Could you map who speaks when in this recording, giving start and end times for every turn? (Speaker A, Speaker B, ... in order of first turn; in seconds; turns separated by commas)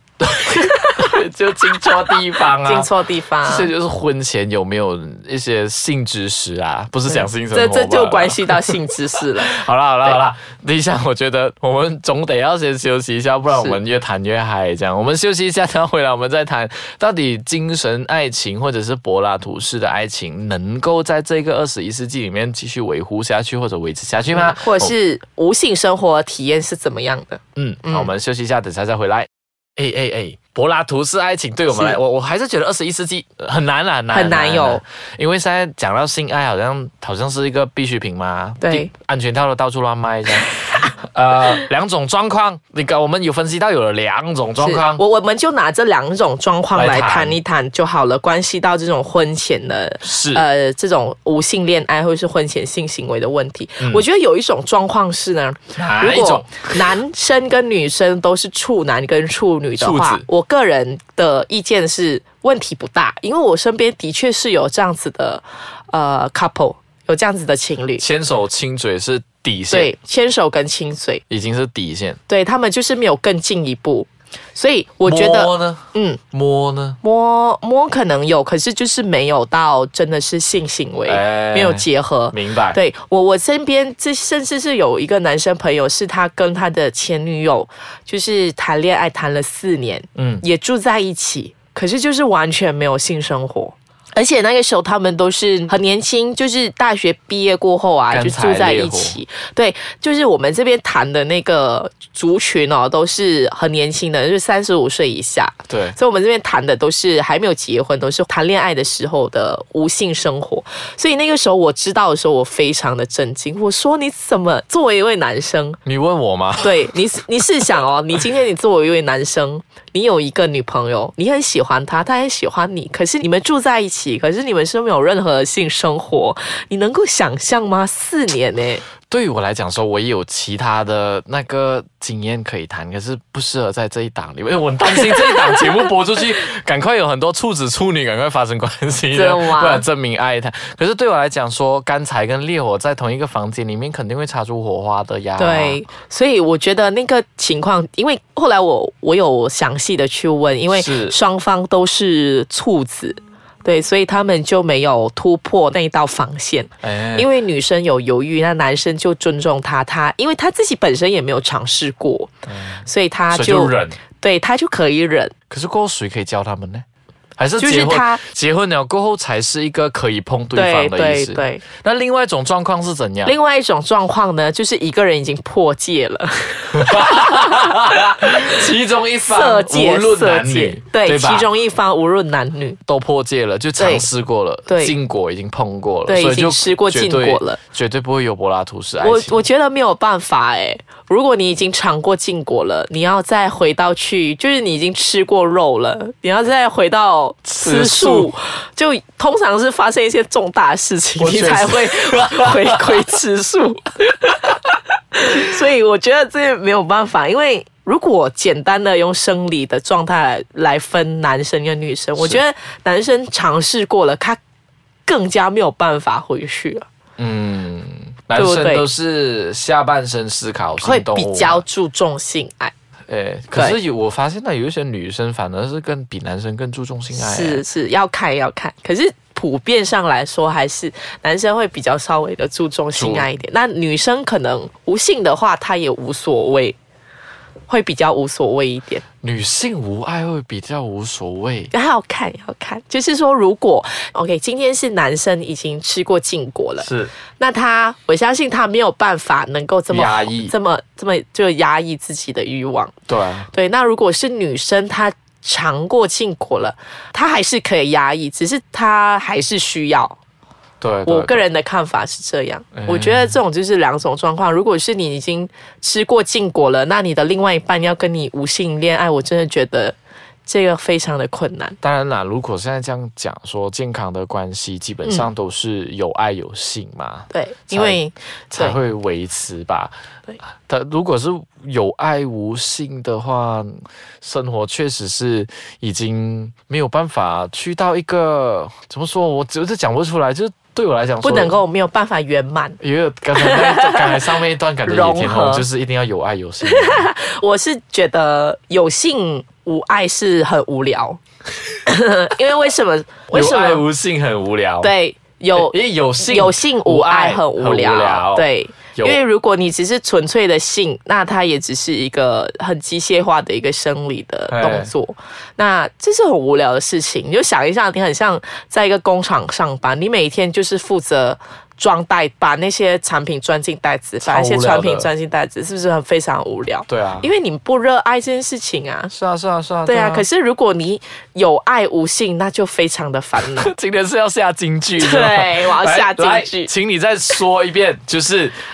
Speaker A: 0.2-2.9, Speaker B: 2.6-3.7, Speaker A: 3.4-8.8, Speaker B: 7.1-10.2, Speaker A: 9.4-24.9, Speaker B: 24.3-28.1, Speaker A: 27.6-45.0, Speaker B: 31.7-32.0, Speaker B: 34.1-34.8, Speaker B: 38.6-38.9, Speaker B: 44.6-68.0, Speaker A: 46.7-47.4, Speaker A: 50.0-50.5, Speaker A: 55.8-56.8, Speaker A: 59.8-60.3, Speaker A: 68.0-69.9, Speaker B: 69.7-71.2, Speaker A: 71.3-72.2, Speaker B: 72.3-76.2, Speaker A: 75.0-77.0, Speaker B: 77.0-115.8, Speaker A: 81.0-82.8, Speaker A: 90.2-90.5, Speaker A: 98.1-99.2, Speaker A: 105.7-106.0, Speaker A: 115.8-116.9, Speaker B: 116.6-128.8, Speaker A: 129.1-145.8, Speaker B: 134.9-135.6, Speaker B: 139.1-139.9, Speaker B: 145.4-162.3, Speaker A: 150.7-151.2, Speaker A: 156.8-157.3, Speaker A: 162.5-164.0, Speaker B: 162.8-165.3, Speaker A: 165.5-166.8, Speaker A: 167.4-173.3, Speaker B: 167.6-168.2, Speaker B: 170.6-171.7, Speaker B: 173.2-177.7, Speaker A: 176.7-181.5, Speaker B: 179.3-182.8, Speaker A: 182.8-189.4, Speaker B: 183.8-184.1, Speaker B: 184.7-185.0, Speaker B: 186.1-187.6, Speaker B: 189.0-214.4, Speaker A: 197.5-198.3, Speaker A: 201.2-203.0, Speaker B: 215.1-216.9, Speaker A: 217.2-221.6, Speaker B: 218.3-218.8, Speaker B: 220.8-222.7, Speaker A: 223.1-227.6, Speaker B: 227.1-236.8, Speaker A: 232.9-233.3, Speaker B: 237.7-239.0, Speaker A: 239.2-241.7, Speaker B: 241.7-252.9, Speaker A: 246.8-247.1, Speaker A: 249.9-250.5, Speaker A: 253.1-253.5, Speaker B: 253.5-260.2, Speaker A: 260.8-261.4, Speaker B: 261.1-269.9, Speaker A: 262.8-263.4, Speaker B: 270.5-271.8, Speaker A: 271.8-278.0, Speaker B: 277.3-278.8, Speaker A: 278.5-279.9, Speaker A: 280.6-291.6, Speaker B: 291.2-292.8, Speaker A: 292.8-297.1, Speaker B: 293.4-294.2, Speaker B: 294.9-295.7, Speaker B: 296.6-301.2, Speaker B: 301.8-303.9, Speaker A: 303.3-304.9, Speaker B: 304.8-329.1, Speaker A: 305.6-309.2, Speaker A: 314.5-314.9, Speaker A: 324.2-325.1, Speaker A: 326.9-327.3, Speaker A: 329.1-330.3, Speaker B: 329.9-333.7, Speaker A: 333.4-338.6, Speaker B: 335.0-336.7